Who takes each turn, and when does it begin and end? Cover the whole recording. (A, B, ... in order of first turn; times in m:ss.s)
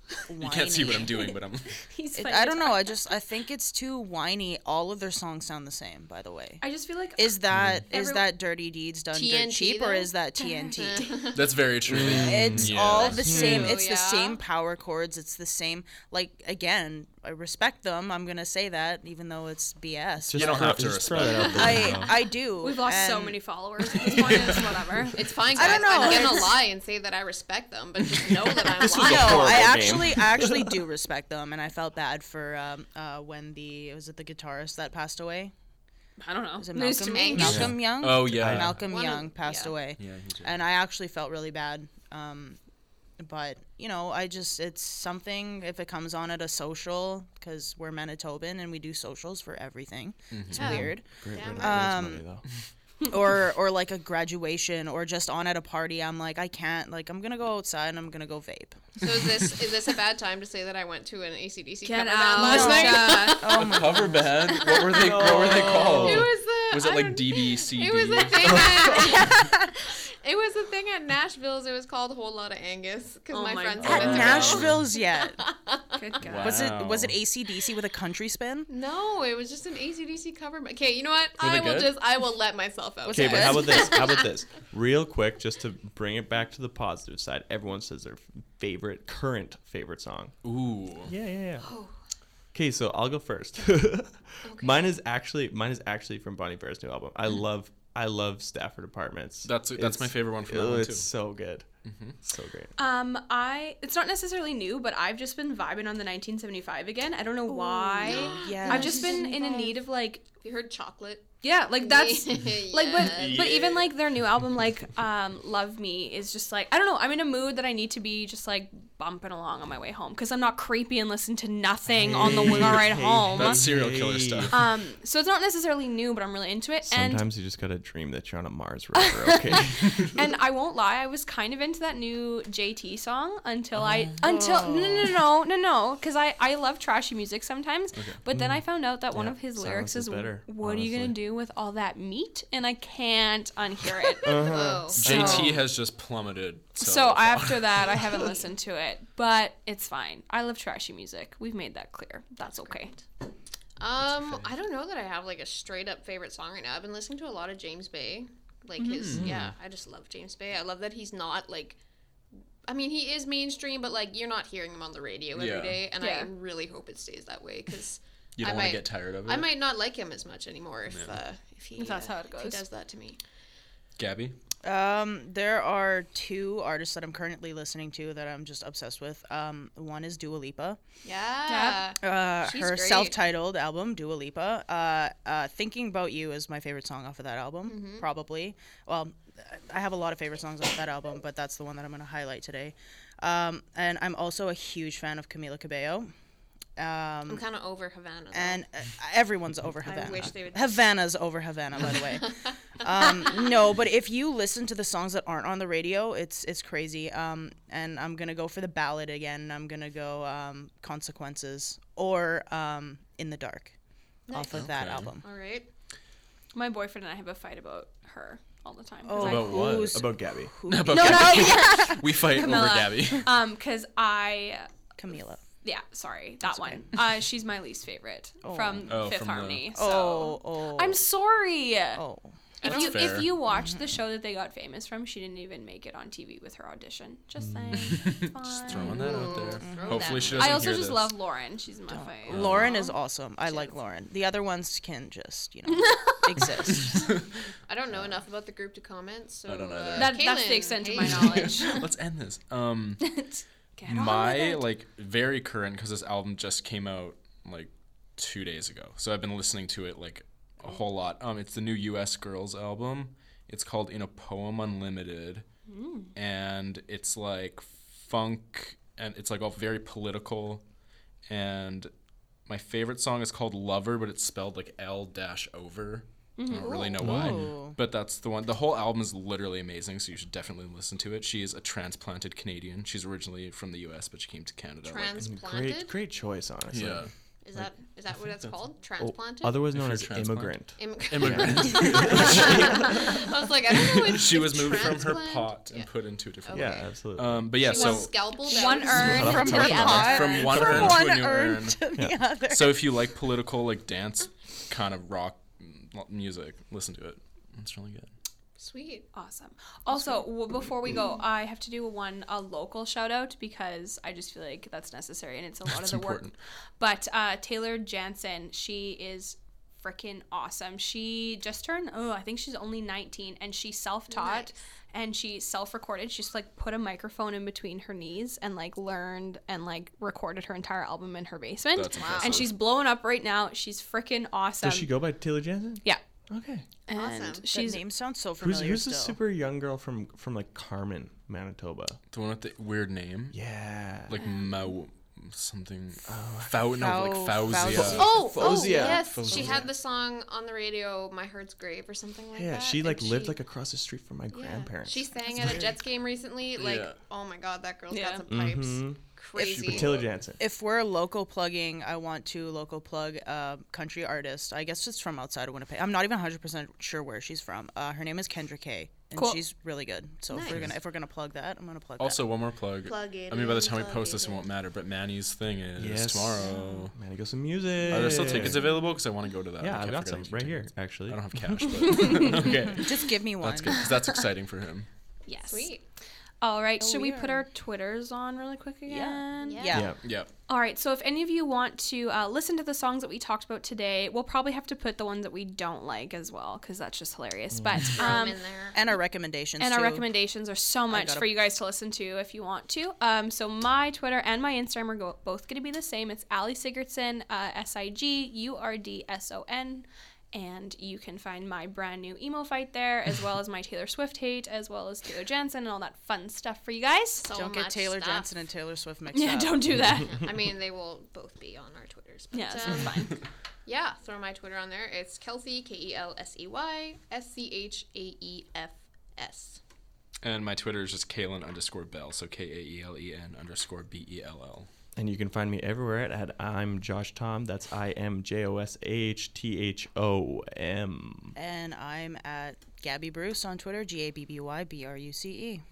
0:00.3-0:01.3 A
0:00.4-0:01.7 B
0:01.7-0:03.0 C
0:02.1-0:06.6 A
0:06.6-0:08.3 C
0:07.2-0:11.0 A
0:07.5-0:07.8 D
0:09.1-0:10.1 E
0:10.4-0:11.2 C
0:10.8-0:11.4 E
0:11.3-0:13.2 B
0:11.9-0:13.7 D
0:11.9-0:23.4 A
0:13.3-0:13.8 C
0:13.4-0:14.4 E
0:20.3-0:22.2 D
0:20.3-0:21.9 B
0:22.6-0:25.3 C
0:24.2-0:24.6 B
0:25.1-0:29.9 E
0:25.5-0:26.6 A
0:28.8-0:30.8 D
0:28.9-0:35.5 A
0:36.2-0:37.6 C
0:36.6-0:42.6 A
0:37.1-0:37.7 E
0:37.4-0:38.8 D
0:37.5-0:38.8 B
0:38.9-0:39.8 E
0:40.0-0:40.6 B
0:43.2-0:52.2 A
0:50.3-0:50.7 B
0:50.6-0:51.8 E
0:50.6-0:52.4 D
0:53.1-0:59.0 A
0:59.0-1:03.8 E
1:01.8-1:03.6 C
1:02.3-1:04.3 A
1:03.5-1:08.7 B
1:04.6-1:09.5 E
1:04.8-1:06.3 D
1:10.2-1:16.0 E
1:13.3-1:14.6 C
1:13.8-1:15.4 A
1:13.8-1:14.8 B
1:15.9-1:16.7 C
1:16.2-1:17.2 B
1:16.4-1:18.7 A
1:18.7-1:24.3 E
1:21.4-1:21.9 B
1:23.0-1:24.0 A
1:23.1-1:30.4 D
1:30.4-1:31.1 B
1:31.0-1:31.7 D
1:32.5-1:41.6 D
1:34.4-1:34.8 E
1:39.4-1:41.1 B
1:41.8-1:42.2 B
1:42.2-1:42.7 D
1:42.8-1:50.2 C
1:47.5-1:49.6 A
1:48.0-1:49.8 E
1:50.4-1:53.4 E
1:51.4-2:03.6 C
1:53.0-1:53.9 D
2:01.9-2:04.6 D
2:03.3-2:04.6 B
2:04.5-2:07.3 C
2:06.8-2:10.1 D
2:09.0-2:24.5 C
2:13.8-2:14.1 B
2:14.2-2:15.1 A
2:18.3-2:21.2 D
2:24.2-2:25.3 D
2:24.4-2:25.6 E
2:24.9-2:28.0 B
2:25.1-2:25.5 C
2:26.8-2:32.9 C
2:32.4-2:33.0 E
2:33.8-2:41.8 E
2:38.8-2:39.1 C
2:38.9-2:39.4 B
2:39.2-2:39.5 D
2:42.6-2:53.2 E
2:45.3-2:45.8 B
2:46.0-2:46.3 C
2:48.4-2:49.5 B
2:50.9-2:51.2 B
2:51.8-2:52.6 C
2:54.0-2:54.4 B
2:54.6-3:00.8 A
3:01.0-3:03.2 E
3:01.5-3:01.9 C
3:02.0-3:16.1 A
3:07.7-3:08.1 E
3:16.8-3:17.4 A
3:17.3-3:18.6 E
3:18.3-3:22.3 A
3:19.8-3:20.8 E
3:21.8-3:23.4 E
3:22.8-3:33.7 A
3:34.3-3:34.7 E
3:34.3-3:35.2 A
3:34.5-3:35.1 B
3:35.2-3:35.7 E
3:36.5-3:39.7 C
3:39.0-3:42.0 A
3:39.2-3:40.0 B
3:39.9-3:40.5 D
3:40.7-3:43.3 B
3:40.9-3:44.7 C
3:45.0-3:45.4 A
3:45.6-3:52.0 C
3:46.4-3:46.8 A
3:48.4-3:49.1 A
3:48.9-3:49.6 B
3:49.7-3:51.0 A
3:51.9-3:52.3 A
3:52.6-3:53.1 E
3:52.6-3:53.3 B
3:52.6-3:59.2 C
3:53.5-3:53.8 A
3:57.9-4:01.1 B
3:58.8-4:00.7 E
3:59.4-4:00.2 A
4:00.3-4:02.9 C
4:01.9-4:07.2 A
4:02.3-4:02.7 B
4:02.6-4:02.9 E
4:05.8-4:06.8 C
4:07.6-4:11.8 E
4:09.4-4:10.2 B
4:09.9-4:11.8 C
4:11.3-4:13.2 B
4:13.0-4:14.7 C
4:13.9-4:25.4 B
4:25.7-4:26.1 C
4:26.1-4:30.6 B
4:31.3-4:31.9 B
4:32.5-4:45.2 B
4:36.4-4:37.0 C
4:36.6-4:37.8 A
4:37.0-4:37.5 D
4:44.8-4:45.9 E
4:45.2-4:47.7 D
4:46.7-4:47.1 B
4:47.4-4:49.6 E
4:49.0-4:52.8 D
4:49.5-4:53.2 B
4:50.8-4:55.9 E
4:54.1-4:58.2 B
4:56.4-4:56.9 E
4:56.5-4:57.5 D
4:57.6-4:59.9 E
4:57.7-5:00.7 C
4:58.5-5:02.9 A
4:58.9-5:01.0 D
4:59.2-5:01.9 B
5:02.5-5:08.1 B
5:08.6-5:09.0 E
5:09.1-5:35.0 C
5:15.7-5:16.3 B
5:24.1-5:24.5 E
5:31.7-5:32.5 B
5:32.0-5:32.4 E
5:34.6-5:36.6 D
5:36.9-5:37.8 C
5:36.9-5:37.5 E
5:37.5-5:39.2 A
5:38.4-5:42.0 D
5:42.1-5:43.4 B
5:43.3-5:44.2 D
5:44.0-5:49.7 B
5:46.1-5:46.9 D
5:46.7-5:48.3 A
5:47.6-5:49.7 D
5:47.9-5:53.4 E
5:52.3-5:55.8 D
5:54.3-6:00.1 E
5:56.6-5:57.0 B
5:57.9-5:58.2 C
5:58.3-6:00.4 D
5:59.3-6:12.2 A
6:09.1-6:09.4 C
6:10.3-6:10.7 E
6:12.0-6:16.9 B
6:12.8-6:14.5 E
6:15.8-6:18.6 D
6:17.9-6:24.9 B
6:19.6-6:22.2 D
6:21.9-6:22.4 C
6:22.6-6:23.7 A
6:25.3-6:25.7 C
6:25.5-6:25.8 E
6:26.4-6:29.7 C
6:26.8-6:27.4 A
6:28.8-6:29.9 A
6:29.4-6:29.8 E
6:30.0-6:30.3 B
6:30.5-6:38.4 C
6:37.6-6:37.9 D
6:37.9-6:38.8 E
6:38.7-6:40.0 A
6:39.6-6:57.2 C
6:40.9-6:41.3 A
6:57.2-6:58.3 E
6:57.3-6:59.8 A
6:59.1-7:00.2 C
7:00.0-7:09.6 E
7:02.3-7:03.2 C
7:10.2-7:14.7 B
7:15.0-7:21.3 D
7:21.4-7:25.6 A